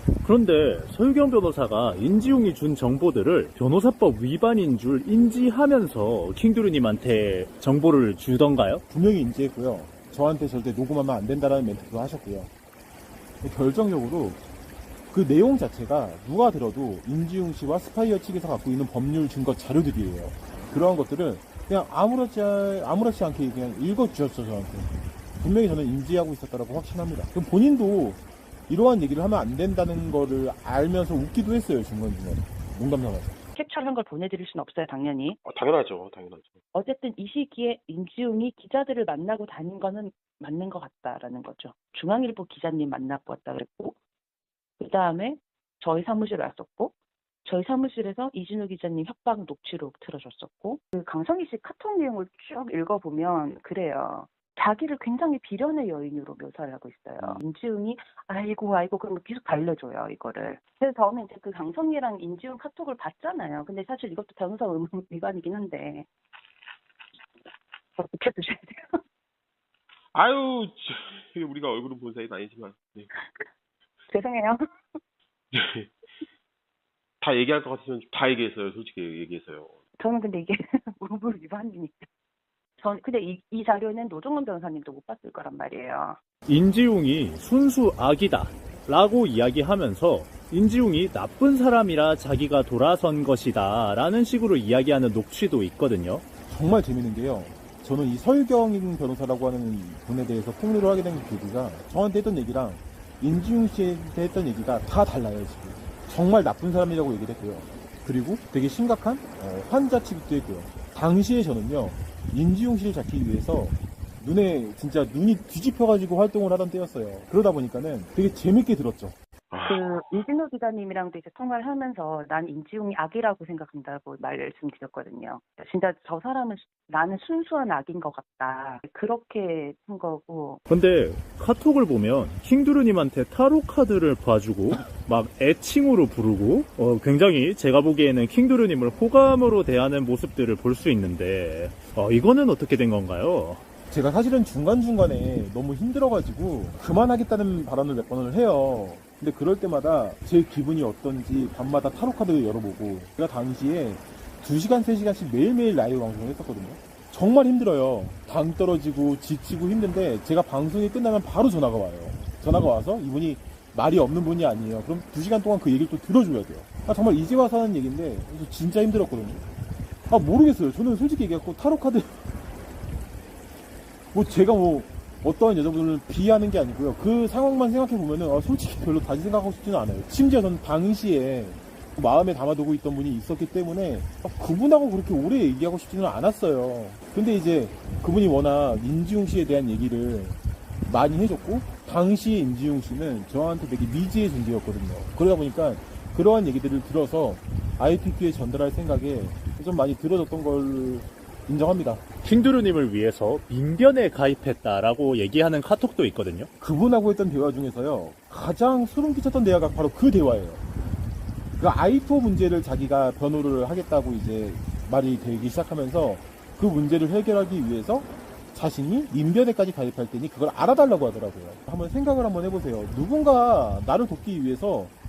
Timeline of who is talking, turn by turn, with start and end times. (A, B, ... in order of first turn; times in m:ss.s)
0:00.2-0:08.8 A
0:08.9-0:12.5 B
0:13.4-0:14.4 B
0:15.1-0:33.4 B
0:33.5-0:35.4 C
0:35.4-0:36.6 D
0:36.7-0:44.0 C
0:44.8-0:46.9 C
0:47.4-1:06.1 C
1:08.0-1:09.0 C
1:10.1-1:13.1 D
1:14.1-1:14.6 C
1:15.5-1:15.9 D
1:17.2-1:19.8 D
1:20.0-1:22.1 C
1:22.8-1:26.2 C
1:26.5-1:36.2 A
1:36.5-1:59.2 B
1:59.5-2:00.0 D
1:59.6-2:10.6 C
2:10.7-2:23.6 A
2:23.9-2:49.4 B
2:50.1-2:52.4 B
2:54.1-3:22.0 B
3:22.2-3:26.5 A
3:26.6-3:30.6 B
3:31.6-3:44.9 B